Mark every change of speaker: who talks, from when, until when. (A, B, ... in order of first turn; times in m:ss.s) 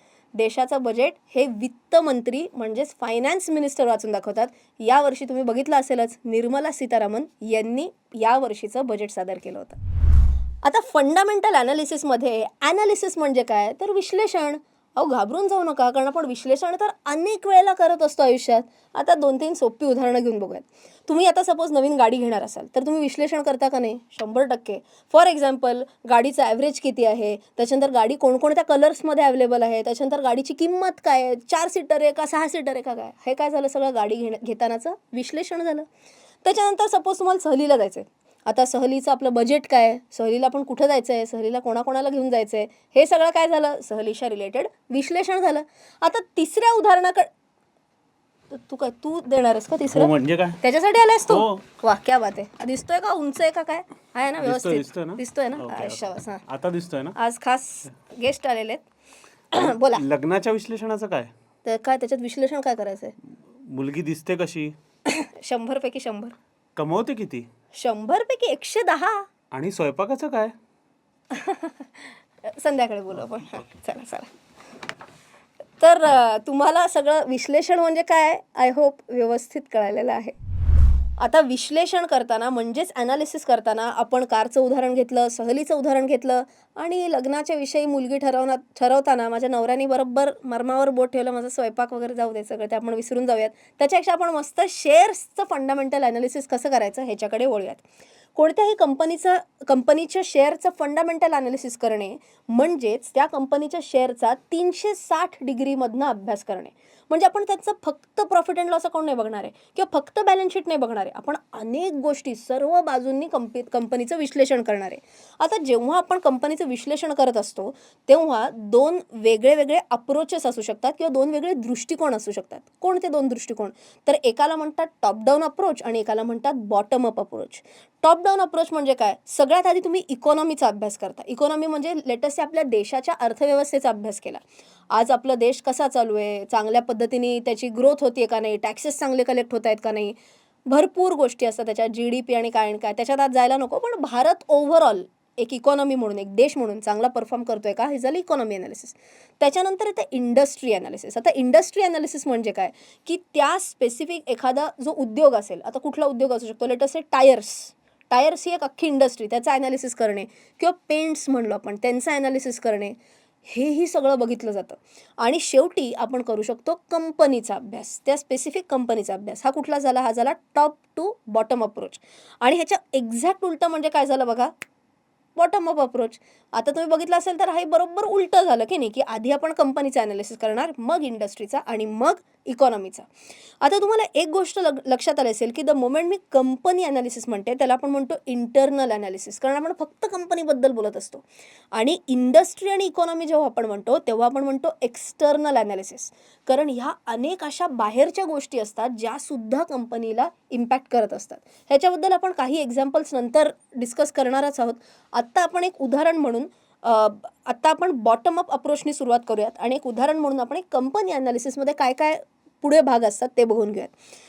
0:00.4-0:09.8 A
0:10.6-0:35.8 A
0:36.4-0:47.3 A
0:48.5-0:56.4 A
0:49.9-0:50.6 B
0:51.3-0:51.6 B
0:54.4-0:57.2 B
0:57.1-0:58.8 A
0:59.5-1:00.0 A
0:59.9-1:01.3 B
1:01.6-1:03.1 A
1:03.6-1:04.7 B
1:05.0-1:06.3 A
1:06.8-1:07.5 B
1:07.7-1:09.2 A
1:09.5-1:10.5 B
1:11.3-1:14.3 A
1:15.8-1:20.4 A
1:21.2-1:37.8 A
1:38.4-2:20.2 A
2:20.7-2:54.5 A
2:55.4-3:03.1 A
3:03.6-3:33.9 A